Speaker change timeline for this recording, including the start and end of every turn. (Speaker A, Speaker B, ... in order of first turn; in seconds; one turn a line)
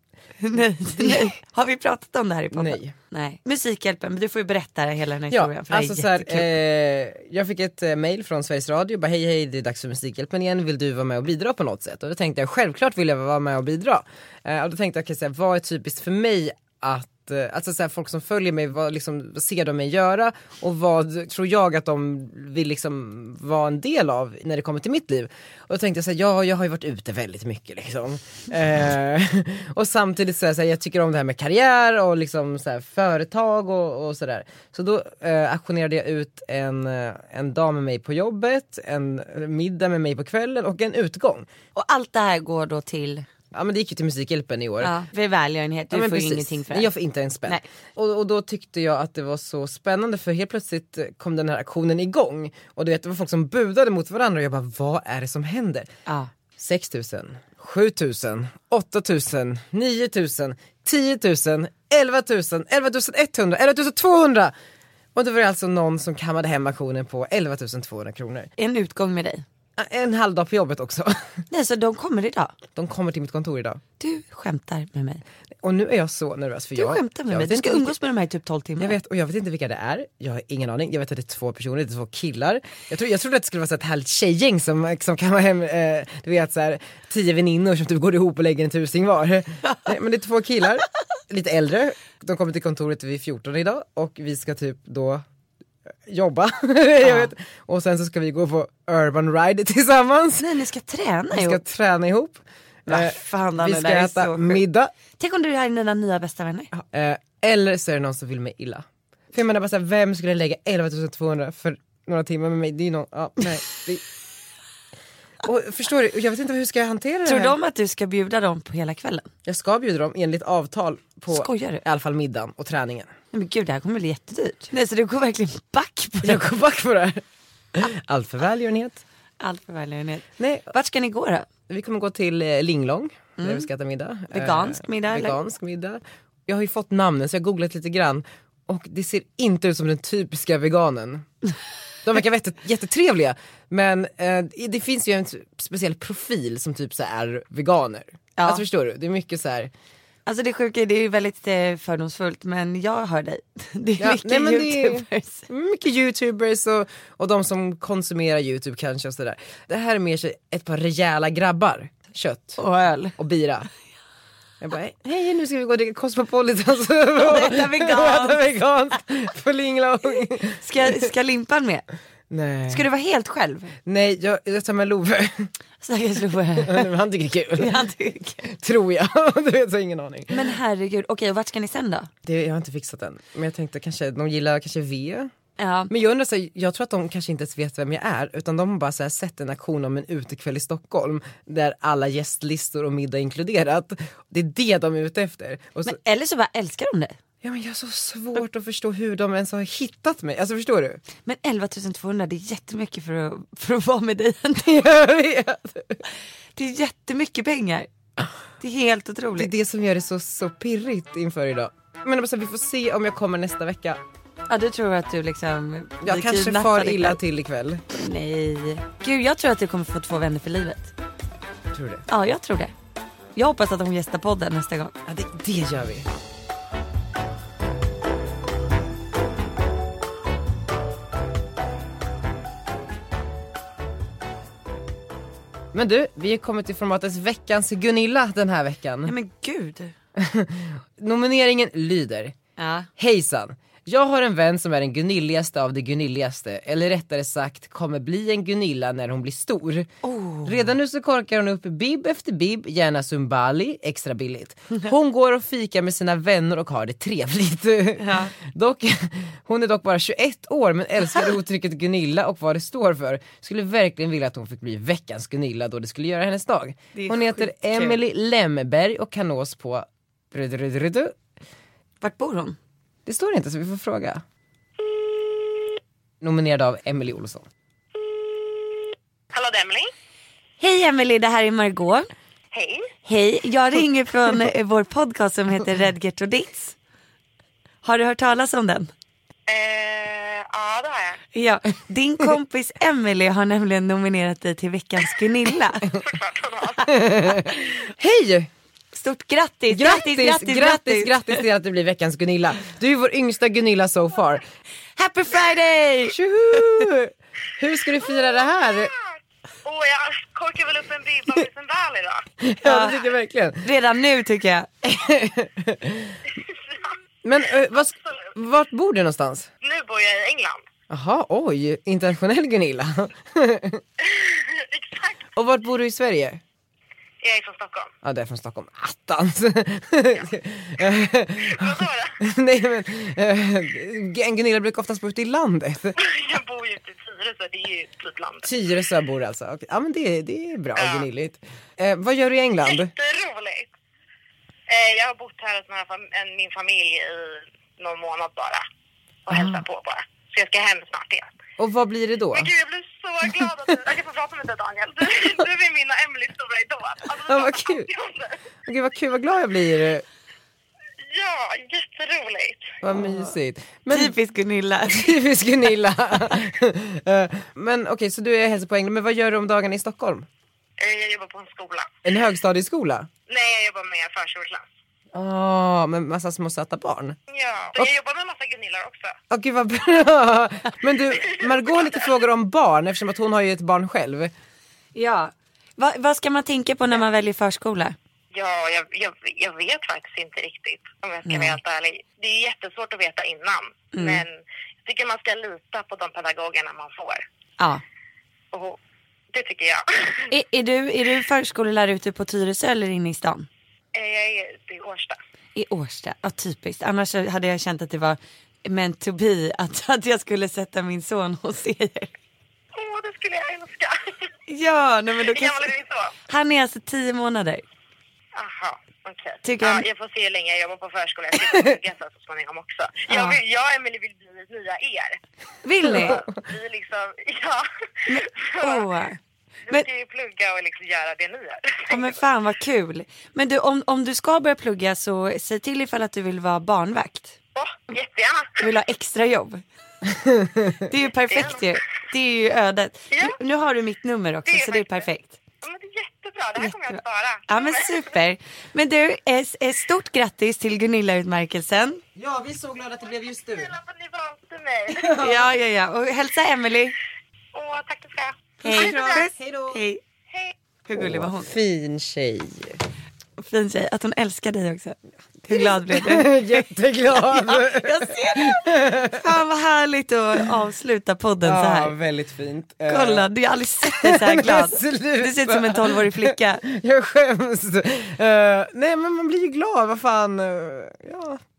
Speaker A: 0.4-6.5
Speaker B: 1.0-1.3
Speaker B: 2.5-2.9
Speaker B: 5.3-41.5
Speaker A: 41.7-43.2
Speaker B: 43.5-44.9
Speaker A: 44.8-46.9
Speaker B: 45.9-55.9
Speaker B: 56.6-64.5
Speaker B: 65.1-68.5
Speaker A: 68.6-69.4
Speaker B: 69.8-71.2
Speaker A: 71.5-72.5
Speaker B: 72.7-73.8
Speaker A: 74.0-75.2
Speaker B: 75.6-77.9
Speaker A: 76.8-79.0
Speaker B: 78.8-95.2
Speaker B: 96.1-100.5
Speaker A: 97.0-97.3
Speaker A: 100.4-101.6
Speaker B: 101.3-104.9
Speaker A: 102.9-104.6
Speaker A: 105.2-106.7
Speaker B: 106.7-114.0
Speaker B: 115.4-117.5
Speaker A: 117.2-119.3
Speaker B: 119.5-123.1
Speaker A: 121.3-121.8
Speaker A: 123.3-126.4
Speaker B: 126.2-127.2
Speaker B: 127.7-129.0
Speaker A: 129.4-131.5
Speaker B: 130.4-130.7
Speaker B: 131.7-141.3
Speaker A: 133.4-133.7
Speaker A: 134.3-135.4
Speaker B: 142.1-149.7
Speaker A: 148.4-148.6
Speaker A: 150.2-155.5
Speaker B: 154.0-162.6
Speaker A: 162.6-163.2
Speaker B: 163.2-163.7
Speaker B: 164.6-170.6
Speaker A: 167.2-168.4
Speaker A: 170.6-171.8
Speaker B: 172.3-172.8
Speaker A: 172.7-173.7
Speaker B: 173.8-175.5
Speaker A: 175.8-176.9
Speaker B: 176.6-177.7
Speaker A: 177.6-178.5
Speaker B: 178.4-180.4
Speaker A: 180.3-182.1
Speaker B: 182.2-185.3
Speaker A: 185.6-185.9
Speaker B: 185.9-196.0
Speaker A: 195.8-197.2
Speaker B: 197.4-201.0
Speaker A: 201.2-204.8
Speaker B: 204.6-206.0
Speaker A: 206.6-207.9
Speaker A: 208.6-209.5
Speaker B: 209.3-214.0
Speaker A: 214.5-217.2
Speaker B: 216.0-217.8
Speaker A: 217.9-220.9
Speaker B: 221.7-222.0
Speaker A: 222.1-222.7
Speaker A: 223.3-224.9
Speaker B: 225.1-226.1
Speaker B: 235.7-239.1
Speaker A: 239.1-239.9
Speaker B: 240.2-242.3
Speaker A: 242.6-242.9
Speaker B: 243.0-249.9
Speaker A: 250.0-250.7
Speaker B: 250.4-271.1
Speaker A: 258.0-258.3
Speaker A: 266.9-268.0
Speaker A: 272.0-272.6
Speaker B: 273.1-274.2
Speaker B: 276.2-277.4
Speaker C: 279.3-279.9
Speaker A: 280.6-282.1
Speaker C: 282.5-282.9
Speaker A: 283.1-286.7
Speaker A: 287.8-288.9
Speaker C: 289.5-291.2
Speaker A: 291.3-295.9
Speaker C: 295.9-296.9
Speaker B: 296.9-298.5
Speaker A: 298.9-301.4
Speaker B: 299.7-304.4
Speaker A: 305.0-306.1
Speaker B: 306.1-308.9
Speaker C: 308.1-312.2
Speaker B: 312.4-313.7
Speaker A: 312.6-313.1
Speaker A: 313.6-314.7
Speaker B: 314.8-316.2
Speaker C: 316.5-316.9
Speaker B: 317.2-319.5
Speaker C: 317.7-318.3
Speaker C: 319.6-320.6
Speaker B: 320.9-323.8
Speaker C: 324.0-325.2
Speaker B: 325.4-326.4
Speaker C: 327.2-327.9
Speaker B: 328.0-335.9
Speaker C: 331.4-332.1
Speaker C: 336.0-338.5
Speaker B: 338.4-342.9
Speaker C: 340.8-341.1
Speaker C: 342.6-343.7
Speaker C: 344.7-348.6
Speaker C: 349.2-351.3
Speaker B: 349.3-349.6
Speaker B: 351.6-352.5
Speaker C: 352.3-358.4
Speaker B: 357.3-357.9
Speaker B: 358.7-360.0
Speaker C: 361.0-362.7
Speaker B: 362.8-364.1
Speaker A: 362.9-363.2
Speaker A: 363.9-365.2
Speaker B: 364.9-370.3
Speaker C: 370.8-371.9
Speaker B: 372.0-373.1
Speaker C: 373.3-374.6
Speaker B: 375.1-377.2
Speaker C: 377.3-379.1
Speaker B: 379.3-384.3
Speaker C: 381.3-382.0
Speaker A: 384.9-387.9
Speaker C: 388.3-397.2
Speaker A: 391.2-391.6
Speaker A: 393.9-394.2
Speaker C: 398.5-398.8
Speaker C: 399.3-400.3
Speaker A: 400.3-403.5
Speaker C: 403.9-405.2
Speaker A: 405.5-412.1
Speaker C: 412.7-414.3
Speaker A: 414.5-415.7
Speaker C: 415.1-416.1
Speaker A: 416.3-417.6
Speaker C: 418.3-425.2
Speaker A: 419.4-419.9
Speaker A: 423.1-423.4
Speaker A: 425.6-426.2
Speaker C: 425.8-428.9
Speaker A: 428.1-429.2
Speaker C: 429.7-432.1
Speaker A: 431.9-437.4
Speaker C: 437.5-438.6
Speaker A: 438.6-439.6
Speaker A: 440.9-445.4
Speaker C: 441.3-441.7
Speaker C: 444.4-445.1
Speaker C: 445.6-448.1
Speaker A: 446.6-452.0
Speaker B: 452.1-453.7
Speaker C: 453.4-455.2
Speaker B: 454.9-455.5
Speaker A: 455.2-457.0
Speaker C: 457.5-459.3
Speaker A: 458.6-460.0
Speaker B: 458.6-459.8
Speaker A: 460.9-461.5
Speaker B: 460.9-462.8
Speaker A: 463.4-471.9
Speaker B: 465.5-469.2
Speaker B: 471.4-473.2
Speaker A: 472.9-476.6
Speaker B: 473.9-481.4